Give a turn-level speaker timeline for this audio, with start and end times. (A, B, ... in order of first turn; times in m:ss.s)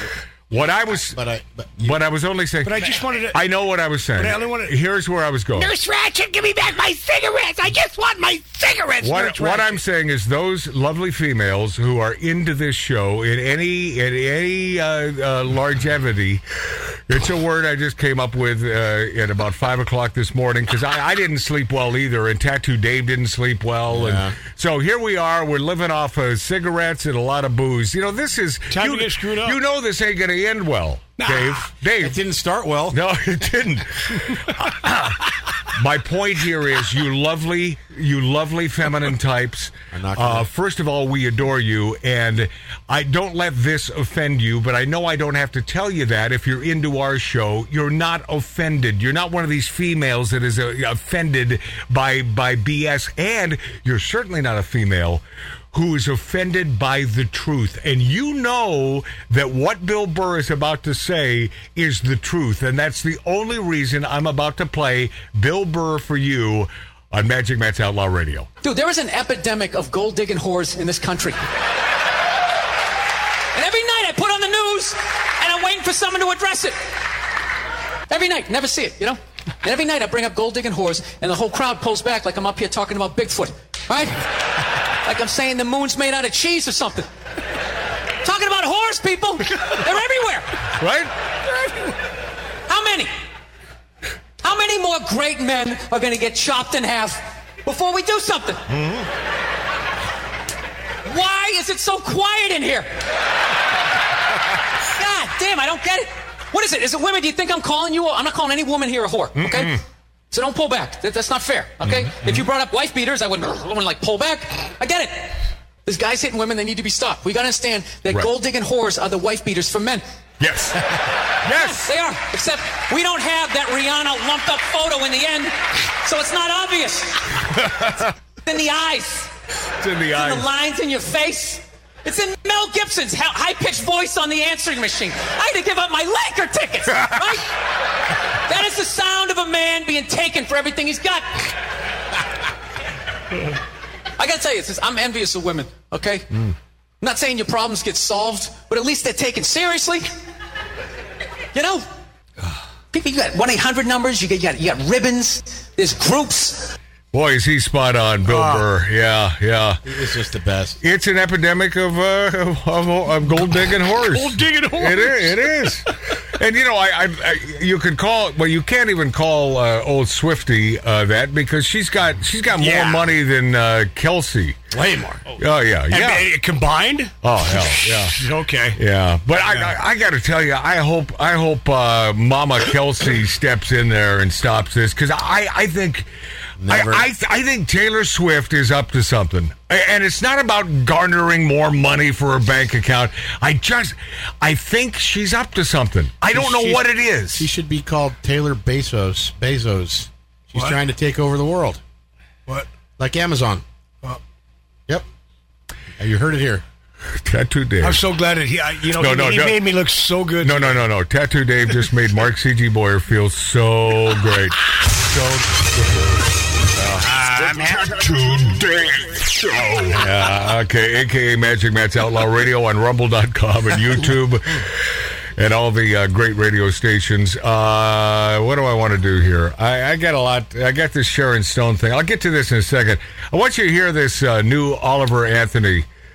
0:00.5-0:01.2 A
0:00.6-0:02.0 B
0:01.8-0:05.8 A
0:02.6-0:03.6 C
0:04.1-0:04.8 C
0:05.6-0:09.3 D
0:09.0-0:16.4 A
0:09.0-0:09.8 C
0:17.1-0:32.2 A
0:23.9-0:24.4 B
0:28.7-0:29.6 C
0:31.2-0:31.7 C
0:32.0-0:33.0 B
0:32.9-1:08.5 A
0:39.9-0:40.5 B
1:08.6-1:11.4 E
1:13.5-1:16.8 E
1:18.1-1:24.3 E
1:24.9-1:27.1 E
1:28.2-1:30.7 E
1:30.8-1:31.1 A
1:31.5-1:31.9 E
1:32.7-1:33.1 E
1:34.4-1:38.6 E
1:38.7-1:39.1 A
1:41.0-1:42.9 E
1:44.9-1:49.8 E
1:49.4-1:49.8 A
1:50.3-2:00.0 E
1:51.8-1:52.4 A
2:00.4-2:01.9 A
2:01.6-2:07.6 E
2:07.5-2:08.1 A
2:08.4-2:09.3 E
2:09.8-2:10.5 A
2:10.1-2:17.5 E
2:18.2-2:21.5 E
2:24.2-2:26.3 E
2:27.0-2:30.1 E
2:31.5-2:31.8 E
2:32.9-2:36.8 E
2:37.1-2:39.8 A
2:38.3-2:38.7 C
2:39.8-2:40.8 B
2:40.8-2:54.6 A
2:44.0-2:45.8 C
2:52.6-2:53.1 C
2:54.7-2:55.4 B
2:55.4-2:56.3 A
2:55.9-2:58.8 C
2:57.2-2:58.2 A
2:58.8-3:06.1 A
2:59.3-2:59.7 C
3:06.6-3:07.1 B
3:06.7-3:17.5 A
3:16.4-3:16.8 C
3:17.4-3:21.8 B
3:23.0-3:23.6 B
3:26.0-3:26.6 B
3:27.2-3:28.0 A
3:27.8-3:30.8 C
3:29.0-3:29.6 A
3:30.4-3:35.2 A
3:35.1-3:36.1 B
3:36.8-3:55.9 A
3:37.2-3:38.0 D